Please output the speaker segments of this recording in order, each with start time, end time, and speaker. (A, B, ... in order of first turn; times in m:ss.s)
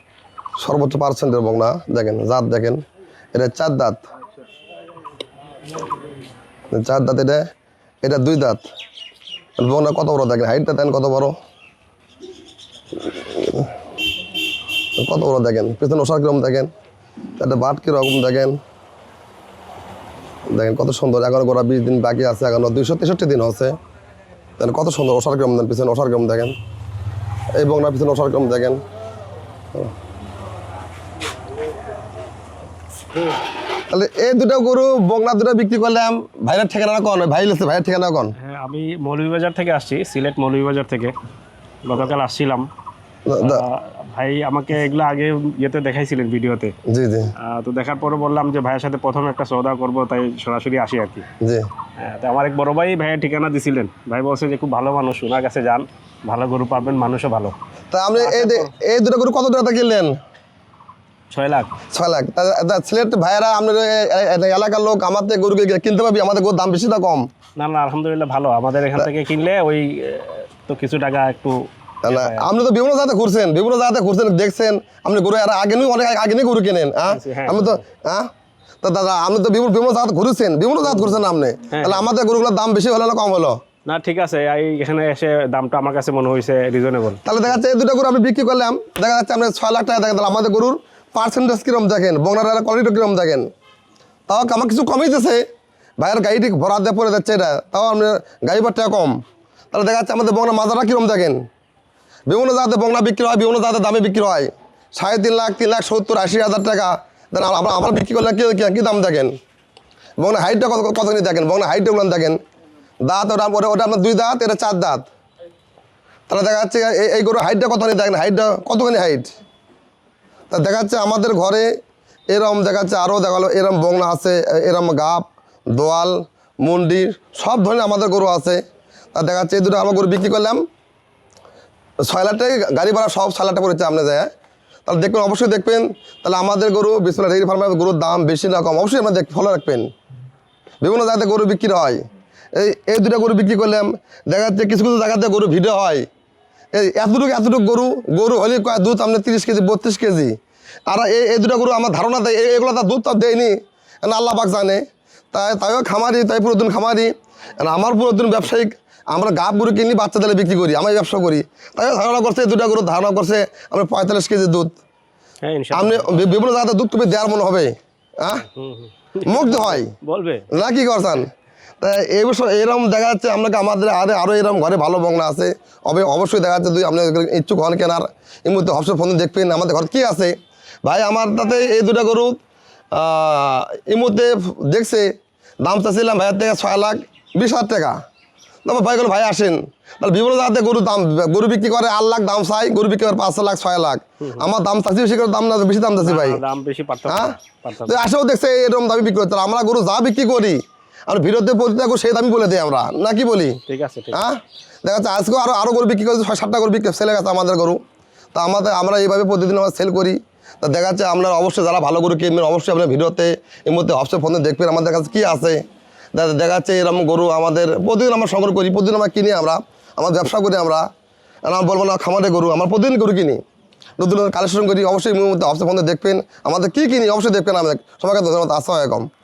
0:00.6-0:02.8 A
0:03.3-0:04.0 A
0:06.7-0:07.4 A
0:08.0-0:08.7 A
0:09.6-0:11.4 A
0:13.0-0:13.7 A
0:15.0-0:16.7 A
0:17.4-0:18.6 A
0:20.5-0:23.8 A
0:24.6-0:26.6 A
0:27.6-0:28.8 A
0:33.9-0:38.4 A
0:38.4-0:41.2 B
0:41.8-0:42.7 B
0:43.3-0:43.6 A
0:43.4-0:46.8 B
0:46.8-0:47.3 A
0:47.4-0:51.3 B
0:51.4-0:51.7 A
0:52.0-0:57.6 B
0:57.9-1:00.2 A
0:58.2-0:58.7 B
1:01.3-1:01.8 B
1:01.9-1:07.3 A
1:07.6-1:12.5 B
1:12.0-1:18.3 A
1:17.1-1:17.8 B
1:18.8-1:23.6 A
1:21.7-1:22.1 B
1:23.9-1:27.2 B
1:27.2-1:33.5 A
1:34.3-1:35.4 A
1:36.0-1:39.2 A
1:39.7-1:41.4 A
1:42.3-1:49.4 A
1:50.2-1:52.4 A
1:53.0-1:55.1 A
1:56.3-1:59.3 A
2:00.5-2:01.7 A
2:02.3-2:08.6 A
2:09.1-2:10.6 A
2:12.0-2:14.3 A
2:14.9-2:19.9 A
2:20.8-2:22.0 A
2:22.6-2:26.1 A
2:26.7-2:30.4 A
2:30.9-2:44.8 A
2:45.4-2:46.4 B
2:45.7-2:48.5 A
2:48.6-2:50.5 B
2:49.2-2:50.0 A
2:50.5-3:02.4 A
3:02.9-3:08.0 A
3:08.6-3:16.4 A
3:16.0-3:18.0 B
3:17.1-3:23.6 A
3:23.7-3:24.2 B
3:24.1-3:27.8 A
3:28.3-3:40.9 A
3:41.4-3:43.4 A
3:44.0-3:49.1 A